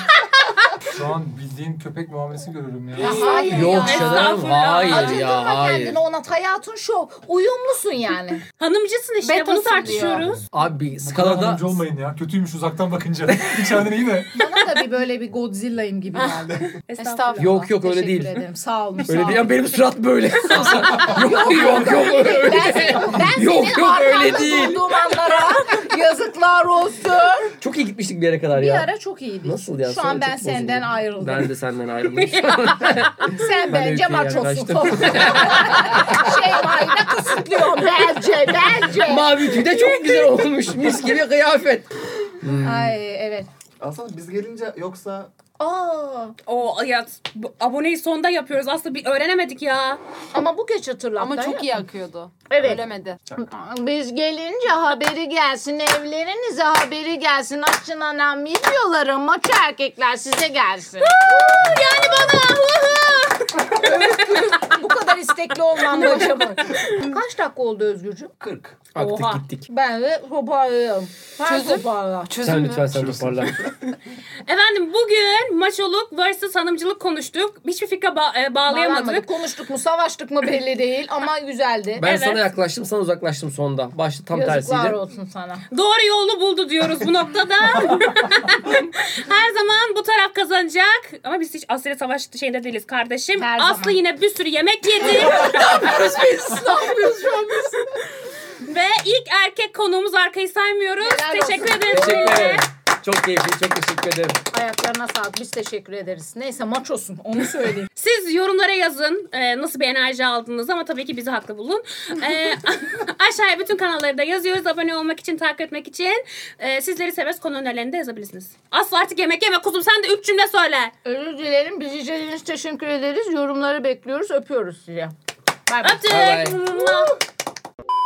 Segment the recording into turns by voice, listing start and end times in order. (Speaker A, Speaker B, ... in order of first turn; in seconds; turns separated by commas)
Speaker A: 0.9-3.5, Speaker B: 3.0-8.4, Speaker C: 3.1-5.3, Speaker D: 3.3-6.0, Speaker E: 3.3-4.0, Speaker C: 8.6-10.4, Speaker E: 9.2-10.4, Speaker A: 10.0-10.4, Speaker D: 10.5-11.8, Speaker A: 11.0-14.3, Speaker B: 14.3-16.7, Speaker C: 16.9-17.5, Speaker E: 17.0-17.6, Speaker D: 17.4-18.4, Speaker B: 17.5-19.5, Speaker D: 19.1-24.8, Speaker B: 20.6-27.5, Speaker D: 27.6-28.9, Speaker B: 28.5-31.5, Speaker D: 29.4-36.4, Speaker C: 32.3-33.0, Speaker B: 33.2-40.4, Speaker D: 38.9-41.9, Speaker D: 42.4-43.0, Speaker B: 42.6-43.5, Speaker F: 43.8-45.3, Speaker B: 45.6-46.3, Speaker C: 46.5-50.0, Speaker B: 50.3-51.9, Speaker E: 51.2-53.2, Speaker B: 52.5-61.7, Speaker C: 61.0-64.6, Speaker F: 61.6-62.4, Speaker B: 63.6-68.3, Speaker C: 65.9-67.1, Speaker E: 66.0-66.4, Speaker F: 68.4-68.8, Speaker D: 68.9-69.7, Speaker C: 69.0-69.4, Speaker B: 69.0-72.3, Speaker E: 71.4-73.0, Speaker D: 72.4-73.6, Speaker F: 72.9-73.7, Speaker C: 74.5-79.3, Speaker B: 78.7-82.0, Speaker D: 82.0-85.0, Speaker C: 82.0-82.4, Speaker B: 84.3-85.6, Speaker C: 85.7-96.1, Speaker B: 93.3-94.0, Speaker D: 95.0-97.8, Speaker B: 96.5-97.1, Speaker C: 98.6-102.7, Speaker B: 101.0-102.4, Speaker D: 101.9-104.4, Speaker B: 104.5-107.9, Speaker C: 108.0-120.9, Speaker B: 121.0-125.1, Speaker B: 125.7-126.0, Speaker C: 125.8-127.2, Speaker D: 126.0-126.6, Speaker B: 126.8-127.1